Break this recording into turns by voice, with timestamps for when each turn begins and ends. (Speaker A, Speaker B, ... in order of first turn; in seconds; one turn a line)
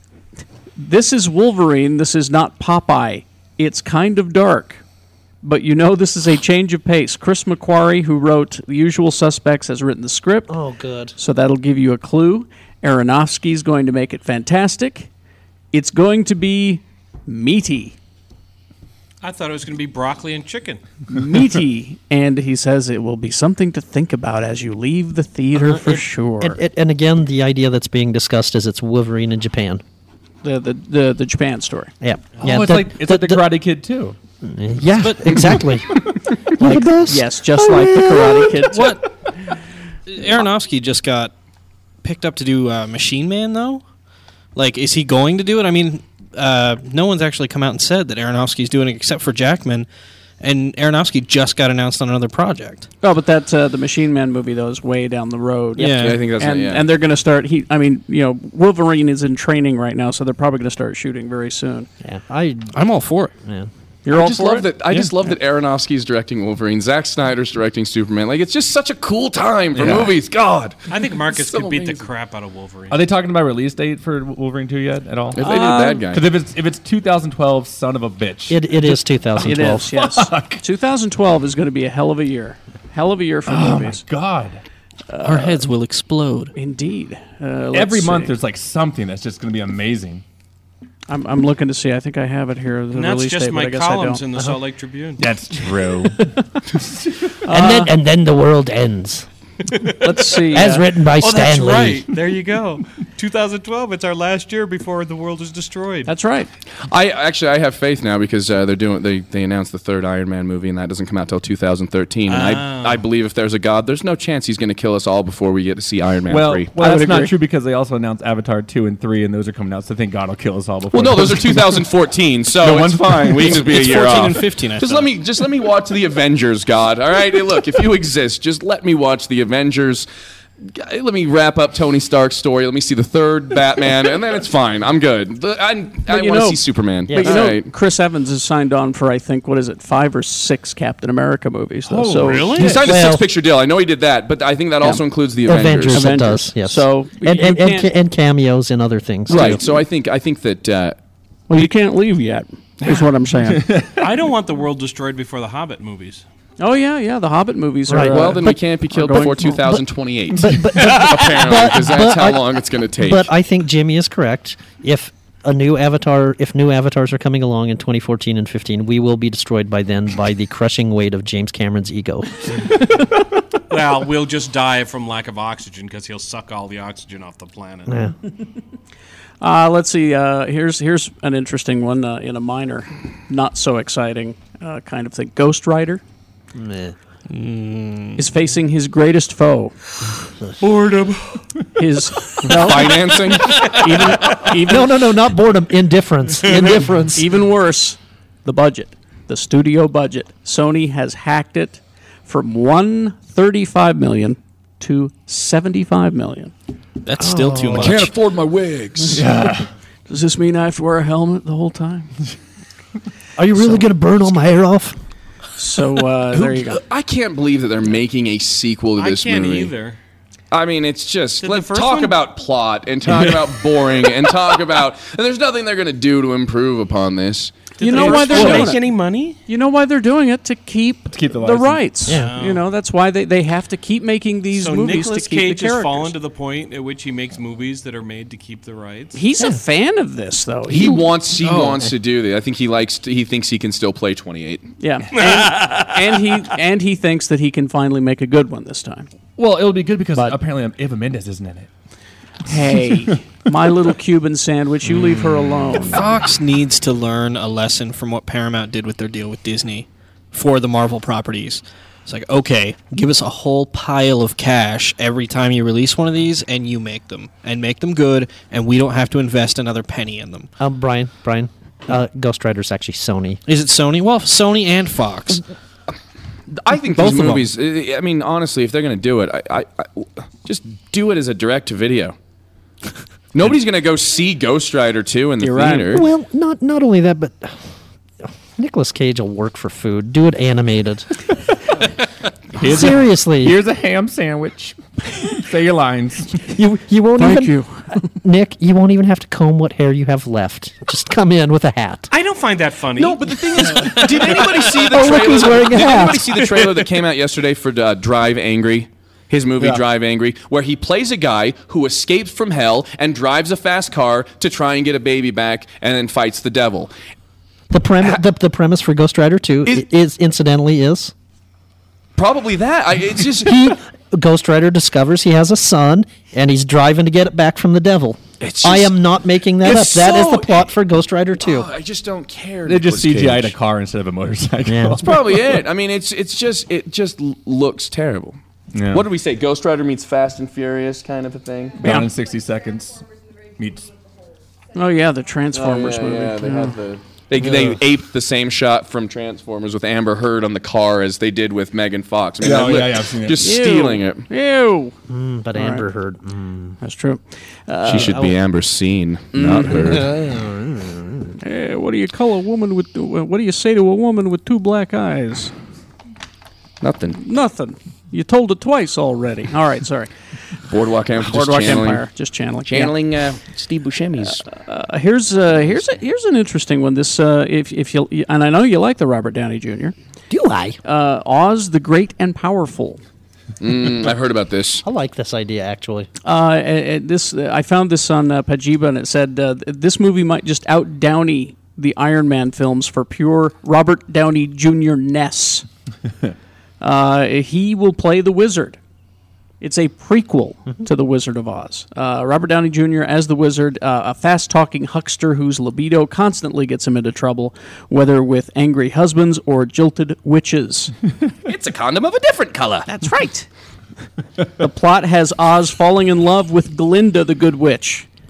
Speaker A: 0.8-4.8
Speaker A: 5.4-10.5
Speaker B: 10.5-11.2
Speaker A: 11.2-15.1
Speaker A: 15.7-18.0
Speaker C: 19.2-20.8
Speaker A: 21.1-26.6
Speaker B: 25.6-29.8
Speaker A: 30.4-31.9
Speaker B: 32.0-33.5
Speaker D: 32.4-34.2
Speaker B: 34.4-35.9
Speaker E: 35.0-35.3
Speaker D: 35.3-35.6
Speaker B: 36.6-38.6
Speaker A: 36.6-39.0
Speaker E: 38.7-39.0
Speaker E: 40.1-41.3
Speaker E: 42.0-43.8
Speaker E: 44.5-49.9
Speaker E: 50.4-52.9
Speaker A: 53.0-61.9
Speaker E: 55.8-56.2
Speaker F: 55.8-56.9
Speaker B: 62.0-62.7
Speaker E: 62.7-63.3
Speaker B: 63.5-63.7
Speaker A: 64.0-64.7
Speaker F: 64.1-72.1
Speaker D: 69.7-70.2
Speaker C: 70.9-73.1
Speaker D: 72.9-80.6
Speaker F: 75.3-76.2
Speaker A: 75.4-76.1
Speaker B: 78.5-79.9
Speaker A: 79.4-84.0
Speaker D: 83.5-84.6
Speaker A: 85.1-85.6
Speaker E: 85.2-86.5
Speaker A: 86.5-88.4
Speaker D: 87.7-90.2
Speaker A: 91.1-94.5
Speaker C: 92.9-95.3
Speaker D: 95.2-96.9
Speaker A: 97.5-97.9
Speaker B: 97.5-99.3
Speaker C: 99.8-106.1
Speaker A: 100.0-100.9
Speaker B: 100.5-102.0
Speaker A: 106.1-106.5
Speaker F: 106.9-116.7
Speaker C: 112.3-113.0
Speaker D: 116.3-121.9
Speaker A: 116.8-117.3
Speaker F: 120.9-130.1
Speaker D: 122.5-124.0
Speaker E: 123.5-125.0
Speaker F: 130.6-137.7
Speaker A: 136.1-142.7
Speaker B: 137.1-137.6
Speaker D: 141.9-142.9
Speaker C: 142.2-142.9
Speaker F: 142.5-146.2
Speaker B: 142.8-143.3
Speaker B: 145.4-149.7
Speaker A: 145.9-147.9
Speaker F: 149.3-151.0
Speaker A: 151.5-153.7
Speaker D: 153.7-154.0
Speaker C: 154.0-156.2
Speaker A: 156.6-159.6
Speaker B: 157.9-158.8
Speaker F: 158.1-163.3
Speaker B: 159.5-159.8
Speaker B: 160.4-172.3
Speaker C: 173.7-178.0
Speaker B: 177.9-178.1
Speaker A: 179.4-186.0
Speaker B: 186.6-186.9
Speaker E: 187.3-188.2
Speaker A: 188.2-189.8
Speaker C: 190.6-191.4
Speaker A: 191.8-195.0
Speaker F: 192.5-194.0
Speaker B: 194.7-197.3
Speaker A: 197.1-206.5
Speaker E: 207.0-208.1
Speaker B: 207.2-208.1
Speaker F: 207.8-209.3
Speaker D: 209.1-209.7
Speaker A: 210.1-212.1
Speaker B: 213.4-215.0
Speaker A: 215.6-216.8
Speaker F: 216.3-219.7
Speaker C: 219.0-220.0
Speaker F: 220.5-228.6
Speaker C: 221.4-222.2
Speaker C: 227.8-229.4
Speaker A: 227.8-228.9
Speaker D: 228.0-228.8
Speaker A: 229.5-236.2
Speaker D: 231.1-232.2
Speaker B: 232.1-232.3
Speaker C: 232.1-232.7
Speaker C: 234.5-239.2
Speaker A: 239.1-241.1
Speaker F: 240.7-244.7
Speaker A: 244.8-249.1
Speaker C: 245.2-245.9
Speaker D: 249.4-251.7
Speaker A: 252.5-256.1
Speaker E: 255.8-270.5
Speaker B: 270.6-273.4
Speaker E: 273.5-275.4
Speaker F: 276.5-282.2
Speaker A: 277.0-277.4
Speaker B: 277.0-277.4
Speaker F: 283.3-286.1
Speaker A: 285.4-286.1
Speaker B: 285.9-287.6
Speaker B: 288.6-291.1
Speaker D: 292.5-296.4
Speaker B: 292.6-293.6
Speaker B: 296.5-297.6
Speaker A: 297.2-298.0
Speaker B: 298.2-302.1
Speaker C: 302.1-303.9
Speaker F: 302.9-316.9
Speaker B: 304.8-306.4
Speaker D: 309.6-309.8
Speaker B: 317.7-321.1
Speaker F: 322.2-323.7
Speaker B: 323.4-331.7
Speaker F: 328.4-329.0
Speaker F: 329.6-330.7
Speaker F: 331.4-333.6
Speaker D: 332.6-335.6
Speaker B: 334.7-335.1
Speaker F: 335.0-338.4
Speaker D: 338.7-339.1
Speaker F: 338.9-341.9
Speaker D: 341.8-343.1
Speaker A: 341.8-342.1
Speaker D: 343.6-343.9
Speaker A: 344.7-346.8
Speaker F: 345.5-354.3
Speaker B: 347.4-347.8
Speaker D: 352.4-353.5
Speaker A: 353.4-355.0
Speaker B: 355.1-356.8
Speaker A: 355.6-355.9
Speaker A: 356.8-358.3
Speaker F: 357.9-360.2
Speaker B: 357.9-358.4
Speaker A: 359.3-360.0
Speaker B: 359.7-361.4
Speaker A: 361.4-365.5
Speaker F: 366.8-367.2
Speaker A: 367.2-370.1
Speaker F: 370.7-372.1
Speaker A: 371.1-373.0
Speaker F: 372.7-374.5
Speaker A: 374.2-379.9
Speaker B: 380.3-380.8
Speaker A: 380.8-383.0
Speaker F: 383.6-384.8
Speaker B: 384.8-386.1
Speaker A: 386.2-395.6
Speaker A: 396.8-398.8
Speaker A: 399.6-410.9
Speaker F: 411.4-412.9
Speaker A: 412.9-413.5
Speaker A: 414.6-418.1